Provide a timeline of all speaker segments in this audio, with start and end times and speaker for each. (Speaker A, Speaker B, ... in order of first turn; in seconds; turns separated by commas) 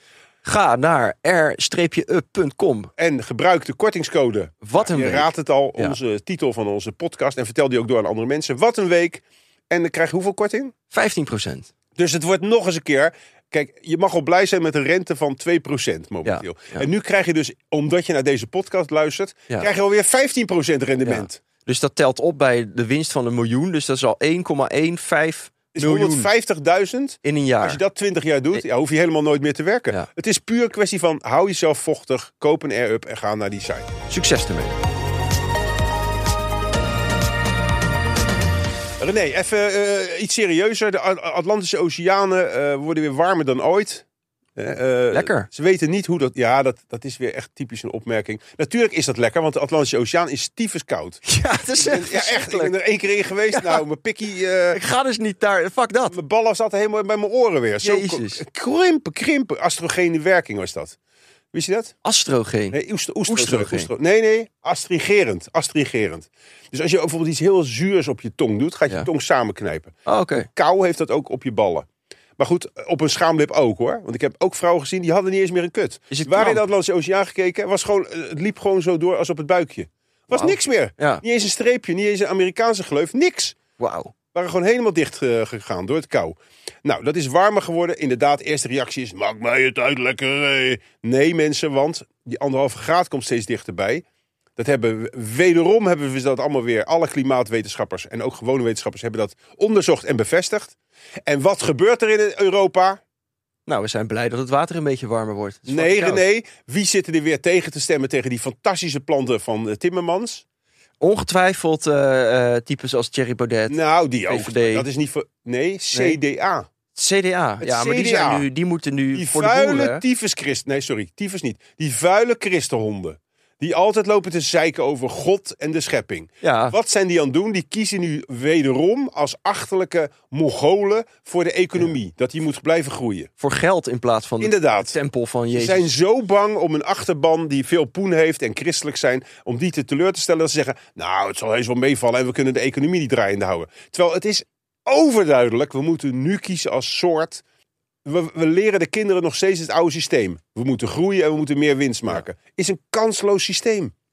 Speaker A: 0.4-2.9, Speaker B: 3.0-10.7, Speaker A: 4.6-6.0, Speaker A: 10.9-11.7, Speaker B: 12.0-21.4, Speaker A: 16.2-16.9, Speaker A: 21.0-26.3, Speaker B: 25.7-33.9, Speaker A: 27.2-27.8, Speaker A: 34.1-34.8, Speaker B: 39.0-44.0, Speaker B: 44.6-51.3, Speaker A: 45.1-45.5, Speaker A: 51.3-52.7, Speaker B: 51.8-54.8, Speaker A: 53.5-53.8, Speaker A: 54.7-56.2, Speaker B: 56.1-61.0, Speaker A: 57.8-58.4, Speaker B: 61.5-62.0, Speaker A: 62.0-62.8, Speaker B: 62.7-70.0, Speaker A: 63.3-63.9, Speaker A: 70.1-70.5, Speaker B: 70.5-71.9, Speaker B: 72.4-83.6, Speaker A: 76.1-76.6, Speaker A: 80.3-81.2, Speaker A: 83.8-84.1, Speaker B: 84.3-94.0, Speaker B: 94.6-103.0, Speaker A: 103.7-106.2, Speaker B: 105.7-110.4, Speaker A: 111.0-114.9, Speaker B: 113.7-116.7, Speaker A: 117.0-120.0, Speaker B: 117.6-118.5, Speaker B: 119.1-133.3, Speaker A: 126.4-126.8, Speaker A: 133.4-135.9, Speaker B: 134.4-134.9, Speaker B: 135.5-147.4, Speaker B: 148.1-153.9